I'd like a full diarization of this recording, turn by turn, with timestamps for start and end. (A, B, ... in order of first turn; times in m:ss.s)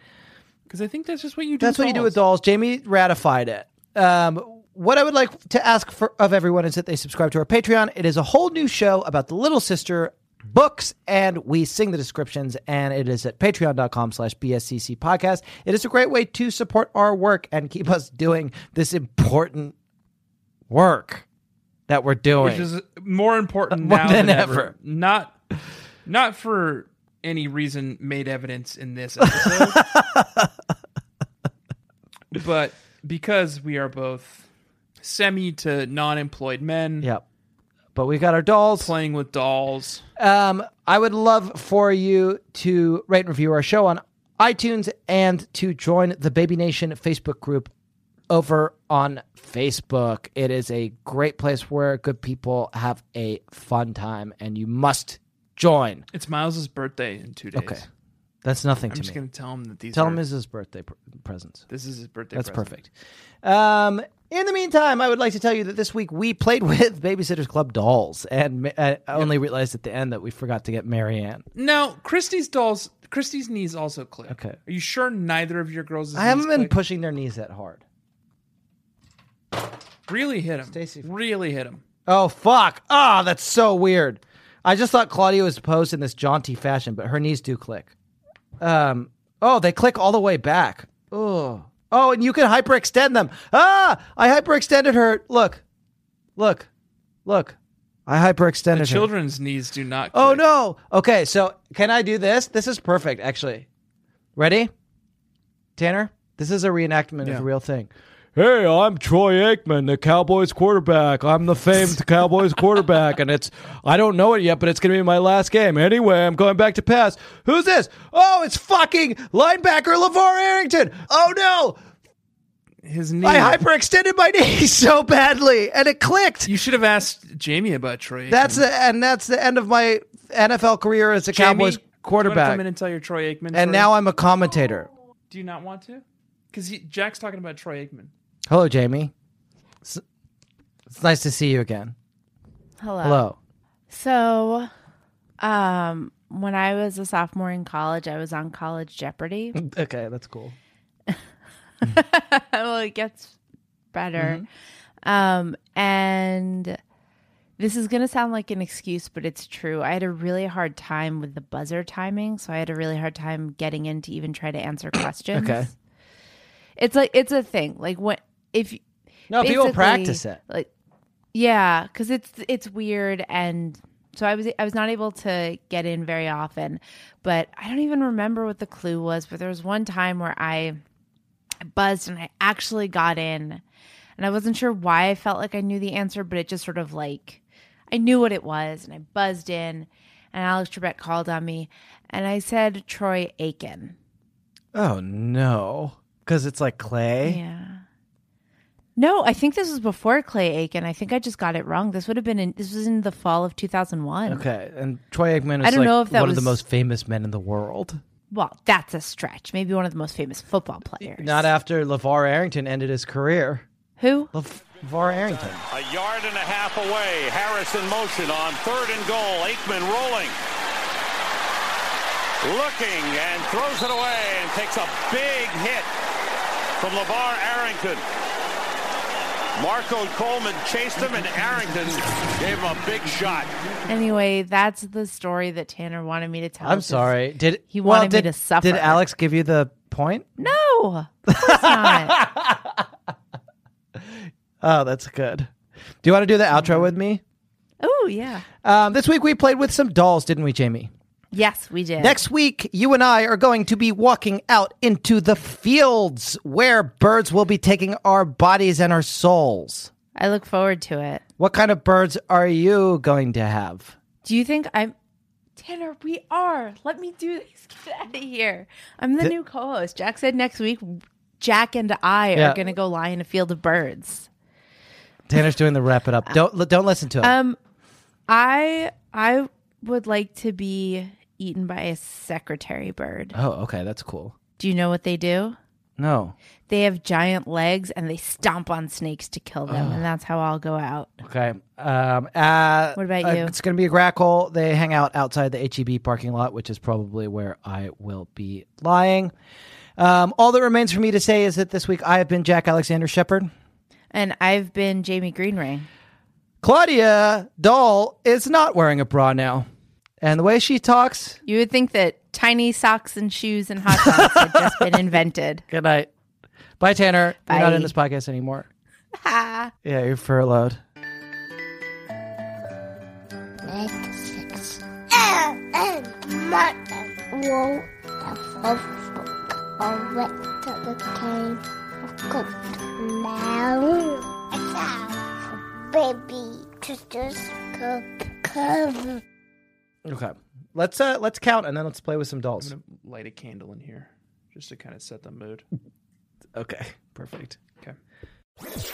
0:00.7-0:02.1 A
0:01.6-0:19.7 B
0:20.7-0:21.2 B
0:21.9-0:22.7 B
0:22.4-0:25.4 A
0:23.7-0:24.7 B
0:26.0-0:29.8 A
0:29.3-0:30.5 B
0:32.3-0:34.5 A
0:35.0-0:37.1 A
0:37.9-0:38.9 B
0:38.8-0:40.0 A
0:40.2-0:47.7 B
0:48.3-0:56.0 B
0:56.1-0:57.8 A
0:57.5-0:57.8 B
0:58.4-0:59.2 B
0:58.9-1:00.2 A
0:59.9-1:01.6 B
1:01.7-1:02.8 A
1:02.3-1:02.9 B
1:03.4-1:11.4 B
1:11.5-1:16.7 A
1:14.3-1:14.6 B
1:16.1-1:17.8 B
1:20.1-1:21.8 A
1:20.7-1:21.1 B
1:22.0-1:27.9 B
1:28.6-1:35.6 B
1:36.4-1:36.7 B
1:37.2-1:39.1 B
1:38.7-1:40.4 A
1:40.1-1:43.7 B
1:44.4-1:44.7 B
1:45.8-2:01.8 B
2:02.8-2:03.6 A
2:03.2-2:06.5 B
2:06.4-2:08.6 A
2:08.3-2:12.6 B
2:11.3-2:13.9 A
2:13.5-2:14.9 B
2:15.3-2:18.1 A
2:18.5-2:19.1 B
2:20.9-2:21.9 B
2:22.8-2:23.3 C
2:23.0-2:23.4 B
2:23.9-2:24.7 C
2:25.4-2:29.6 C
2:29.5-2:30.5 B
2:31.8-2:33.4 C
2:33.9-2:34.4 C
2:34.2-2:34.4 B
2:35.0-2:36.8 C
2:37.6-2:45.7 C
2:45.3-2:45.7 B
2:46.8-2:50.7 C
2:49.3-2:50.4 B
2:51.3-3:00.8 C
3:01.6-3:03.6 C
3:04.2-3:13.9 C
3:14.7-3:17.4 B
3:17.2-3:17.8 C
3:19.0-3:24.4 C
3:24.3-3:28.0 B
3:25.6-3:26.6 C
3:28.3-3:31.5 C
3:31.2-3:33.6 B
3:34.0-3:34.3 C
3:34.3-3:35.6 B
3:35.7-3:40.4 D
3:42.4-3:45.9 D
3:46.8-3:48.0 D
3:49.6-3:53.5 D
3:51.3-3:51.7 B
3:51.4-3:54.0 A
3:53.9-3:57.1 C
3:56.6-4:00.5 B
3:57.7-3:59.0 C
4:00.4-4:02.2 C
4:01.3-4:02.9 B
4:04.0-4:05.5 B
4:06.0-4:07.2 B
4:07.8-4:08.4 C
4:08.6-4:10.9 B
4:11.3-4:12.2 C
4:12.0-4:19.9 B
4:20.2-4:21.2 C
4:21.4-4:24.0 B
4:24.2-4:24.9 C
4:25.6-4:34.3 C
4:32.3-4:32.6 B
4:35.3-4:37.3 B
4:37.2-4:37.6 C
4:38.3-4:43.4 C
4:43.3-4:44.4 B
4:44.6-4:45.6 C
4:46.0-4:46.4 B
4:46.7-4:51.1 C
4:49.7-4:50.0 B
4:51.2-4:59.3 B
4:53.0-4:53.5 C
5:00.0-5:03.5 B
5:04.1-5:05.9 C
5:06.6-5:09.7 B
5:10.2-5:11.4 B
5:11.4-5:15.6 C
5:13.9-5:15.1 B
5:15.7-5:16.1 B
5:16.8-5:18.7 B
5:17.5-5:17.9 C
5:19.1-5:19.7 C
5:19.8-5:20.8 B
5:23.6-5:39.2 E
5:40.0-5:42.7 B
5:42.6-5:45.6 A
5:46.5-5:47.6 B